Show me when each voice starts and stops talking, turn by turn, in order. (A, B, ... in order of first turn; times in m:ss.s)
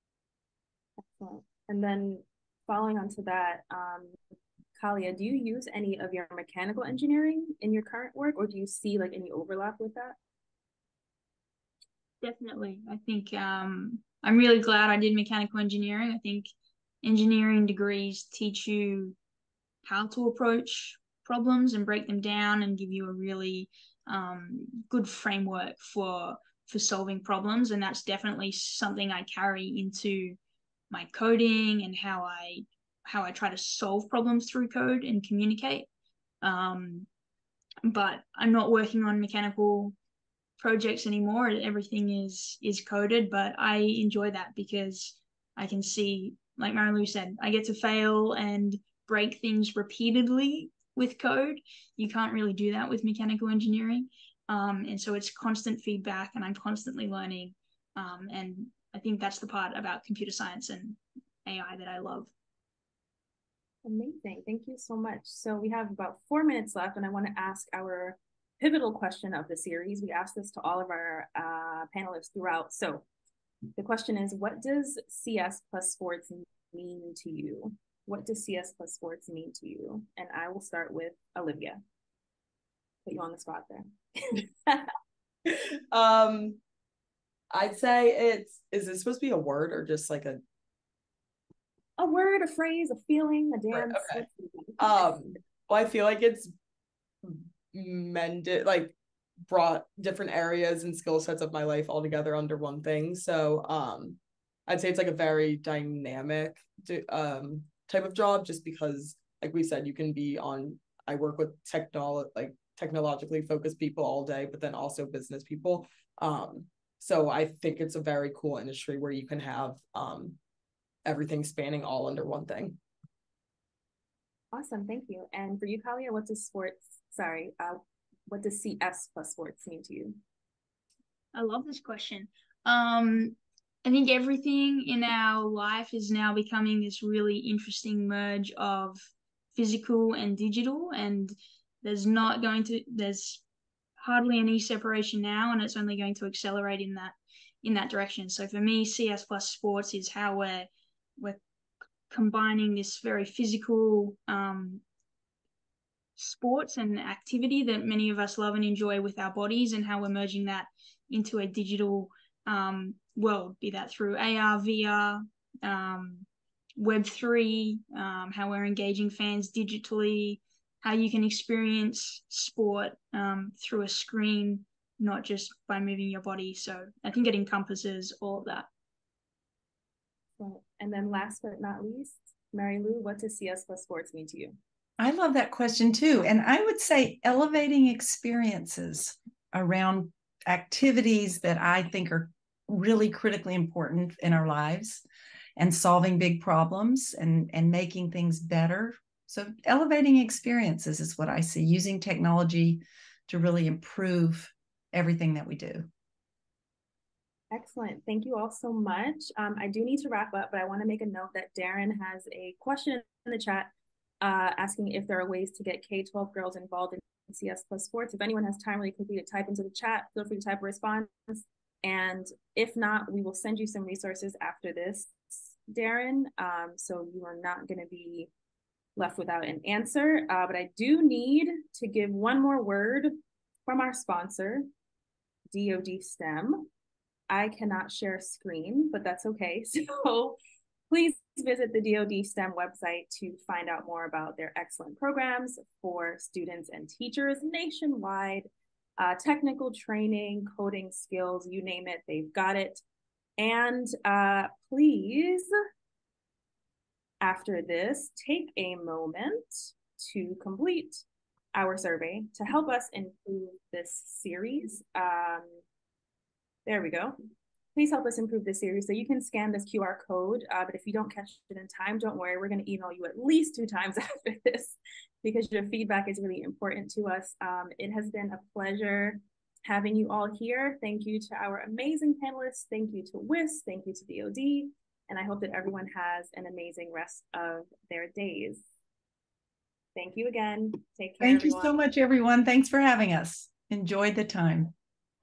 0:01.0-0:04.2 A
0:04.8-0:10.2 A
0:12.2-0:16.5 B
0:17.0-0:19.2 B
0:19.8-0:30.4 B
0:30.9-0:35.9 B
0:36.4-0:37.1 B
0:37.8-0:39.9 B
0:40.6-1:02.3 B
1:03.8-1:13.0 A
1:13.8-1:21.8 A
1:23.0-1:24.9 A
1:25.4-1:26.6 C
1:27.5-1:30.4 C
1:32.0-1:35.1 A
1:33.7-1:34.2 C
1:34.8-1:36.5 C
1:37.2-1:39.0 C
1:39.5-2:00.4 C
2:01.0-2:02.8 C
2:04.5-2:10.2 A
2:11.3-2:23.4 B
2:24.0-2:31.4 B
2:32.1-2:34.8 B
2:36.2-2:58.7 B
3:00.4-3:04.6 A
3:05.0-3:15.0 D
3:15.6-3:25.9 D
3:27.5-3:33.7 A
3:34.2-3:48.3 A
3:49.0-3:53.2 A
3:53.7-3:54.7 A
3:55.5-3:56.7 A
3:57.3-4:00.4 A
4:00.9-4:12.8 A
4:13.4-4:15.5 A
4:17.2-4:25.6 A
4:26.6-4:27.2 A
4:27.8-4:48.7 A
4:49.9-4:51.8 A
4:51.2-4:54.7 D